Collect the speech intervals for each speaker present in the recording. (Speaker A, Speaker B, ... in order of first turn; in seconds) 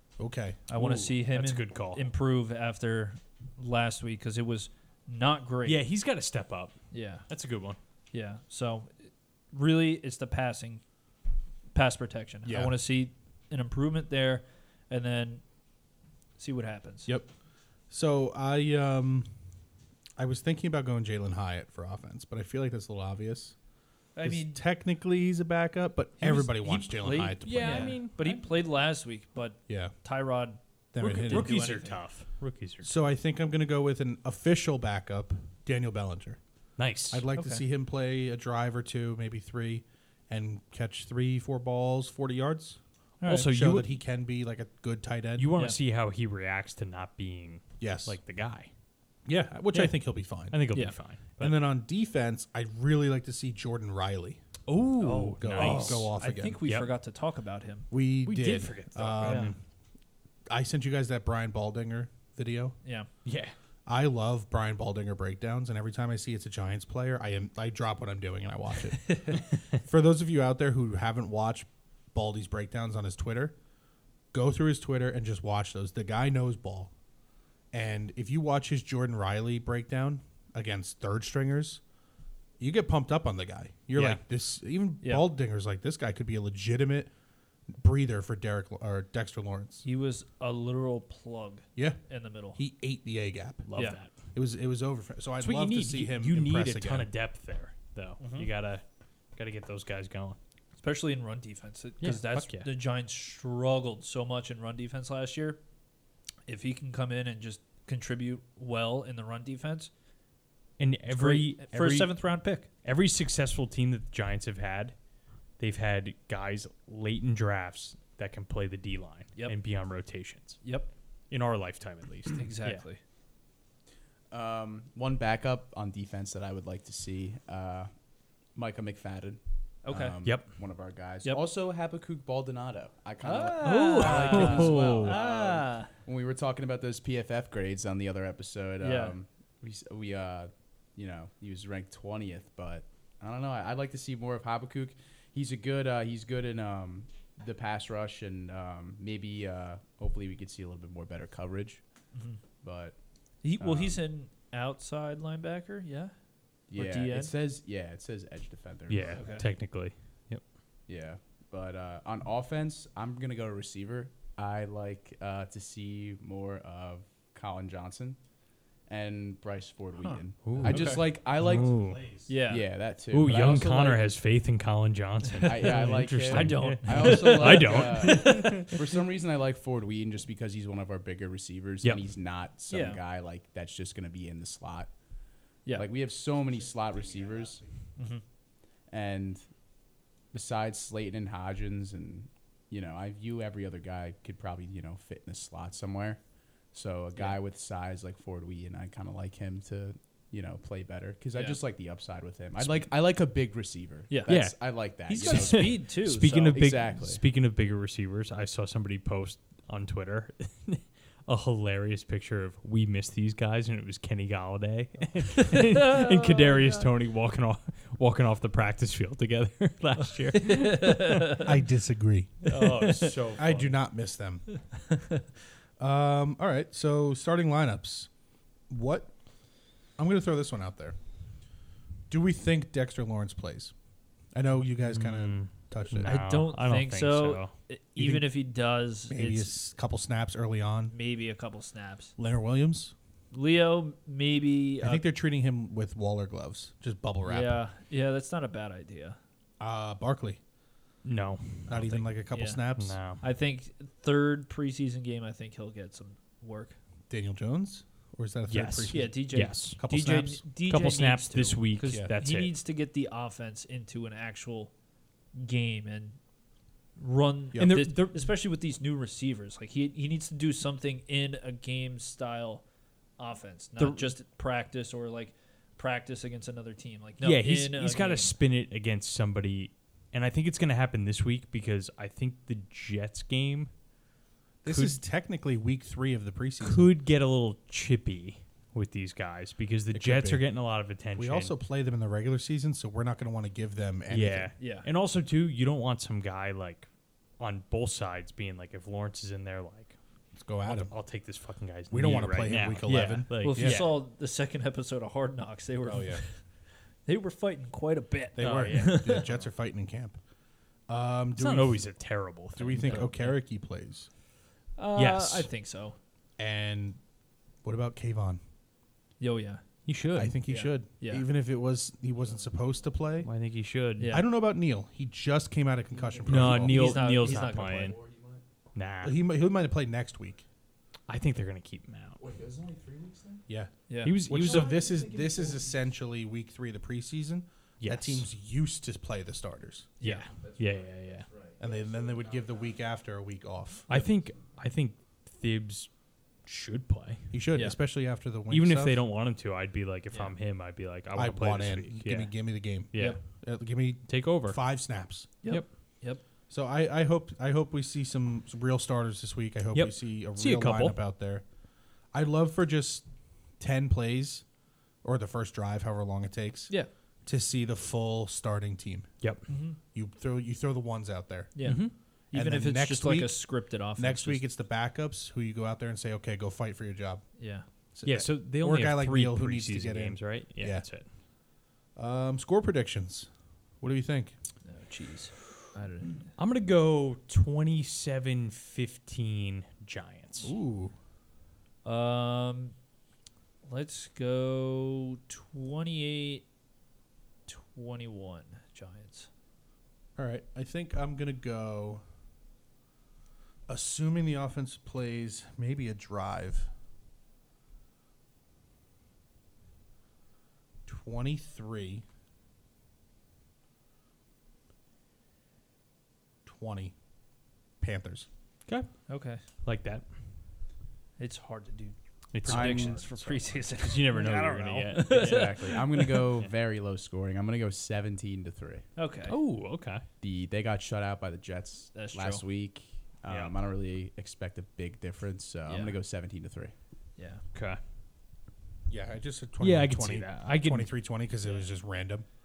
Speaker A: 0.2-0.7, 12.4-12.8, 17.9-19.3, 20.2-23.6, 24.2-28.0, 29.7-29.9, 30.9-31.5, 32.8-36.4, 37.1-42.8, 43.4-45.5, 47.8-48.2, 49.3-50.6, 51.4-54.4, 55.4-56.6, 57.9-59.6, 60.5-62.8, 63.9-73.5, 74.3-76.9, 77.7-81.8, 82.6-87.1, 87.7-89.8, 92.5-93.7, 94.3-97.1, 170.6-172.3, 221.4-222.5, 223.4-224.5, 225.8-228.1, 228.7-229.1, 230.0-231.0, 232.1-233.7, 234.3-236.2, 238.0-238.3, 239.1-240.9, 242.2-242.9, 244.8-247.6, 249.6-250.4, 251.7-253.0, 257.1-260.4, 261.9-262.1, 267.5-267.8, 284.6-286.9, 289.9-290.4, 291.2-294.5, 300.4-300.9, 301.9-303.8, 305.8-306.2, 308.4-310.2, 310.9-311.9, 312.6-314.1, 316.4-317.0, 317.6-318.4, 320.2-323.3, 324.1-327.0, 329.0-330.4, 334.2-339.9, 341.6-343.9, 347.3-349.0, 351.1-355.3, 356.5-361.4, 362.1-363.1, 363.6-364.4, 365.0-366.7, 367.2-369.1, 369.9-377.3, 377.9-380.9, 382.0-383.3, 383.8-384.4, 390.4-390.9, 400.2-402.0, 403.7-406.7, 410.9-412.1, 416.4-416.9, 417.8-418.3, 438.9-442.3
Speaker B: 0.7-5.8, 6.9-7.2, 8.1-10.8, 11.7-15.4, 16.4-17.1, 24.1-24.6, 26.2-32.0, 37.4-37.6, 43.2-43.5, 55.0-57.9, 59.2-59.5, 85.0-85.3, 89.8-92.6, 98.2-98.5, 100.8-105.6, 106.5-109.9, 111.1-112.7, 120.6-120.9, 122.4-123.0, 129.8-130.2, 133.2-135.9, 138.8-139.2, 152.1-152.4, 153.4-156.1, 156.7-157.3, 159.1-159.5, 170.0-171.0, 172.3-172.7, 175.4-178.8, 182.7-183.0, 188.0-188.2, 204.1-204.4, 205.1-206.7, 215.6-216.9, 220.4-221.5, 222.5-223.2, 236.0-239.5, 240.9-242.1, 243.3-245.0, 247.2-249.2, 251.8-252.6, 253.2-256.8, 258.9-264.7, 265.3-266.2, 267.0-272.6, 273.2-278.3, 294.6-294.9, 302.9-306.5, 307.1-309.3, 312.8-313.3, 314.8-316.0, 319.2-319.6, 320.5-321.3, 324.0-324.3, 326.5-327.9, 333.9-334.2, 340.0-340.3, 355.4-356.2, 369.5-369.8, 371.6-374.4, 377.4-377.7, 384.6-386.3, 391.8-392.8, 393.6-396.4, 397.5-399.3, 419.1-419.4, 421.2-426.3, 429.0-429.4, 431.9-432.4, 435.7-435.9, 437.2-437.4
Speaker C: 0.7-2.1, 5.7-7.8, 27.4-28.4, 31.0-32.9, 36.8-37.2, 43.2-43.9, 45.4-48.7, 50.5-51.6, 54.7-56.1, 56.6-56.9, 58.2-59.5, 63.2-63.5, 93.7-94.1, 95.4-98.8, 99.4-100.4, 102.0-102.7, 110.8-112.2, 112.8-115.0, 115.6-120.6, 121.3-122.8, 133.6-135.2, 158.9-160.4, 170.4-172.0, 173.1-178.7, 202.6-202.9, 204.3-221.5, 222.5-223.8, 234.8-237.5, 251.0-252.0, 252.8-253.2, 258.5-259.8, 260.7-262.5, 267.6-268.3, 273.8-274.1, 277.2-283.7, 284.7-285.0, 286.6-291.6, 294.1-296.9, 297.4-300.0, 300.6-304.0, 308.4-309.3, 311.4-313.3, 315.0-315.5, 319.9-320.4, 323.2-324.1, 326.3-328.0, 328.8-329.2, 331.1-332.2, 334.0-334.8, 337.8-338.3, 340.0-341.3, 343.9-345.9, 346.4-347.4, 348.5-353.2, 354.1-354.6, 359.7-361.0, 371.6-371.9, 378.1-381.1, 386.4-390.5, 418.7-419.0, 419.6-420.1, 422.3-426.5, 429.3-430.1, 433.3-433.6, 437.5-437.8, 439.6-440.9
Speaker D: 124.3-127.9, 128.5-151.8, 152.6-153.0, 153.6-154.0, 156.7-159.4, 160.9-168.2, 168.8-171.8, 172.5-174.1, 175.4-184.9, 185.8-187.6, 188.9-189.5, 190.3-206.0, 206.5-207.2, 325.9-328.4, 332.2-333.5, 334.3-335.8, 340.4-342.8, 422.5-423.1, 425.0-428.9, 430.2-436.7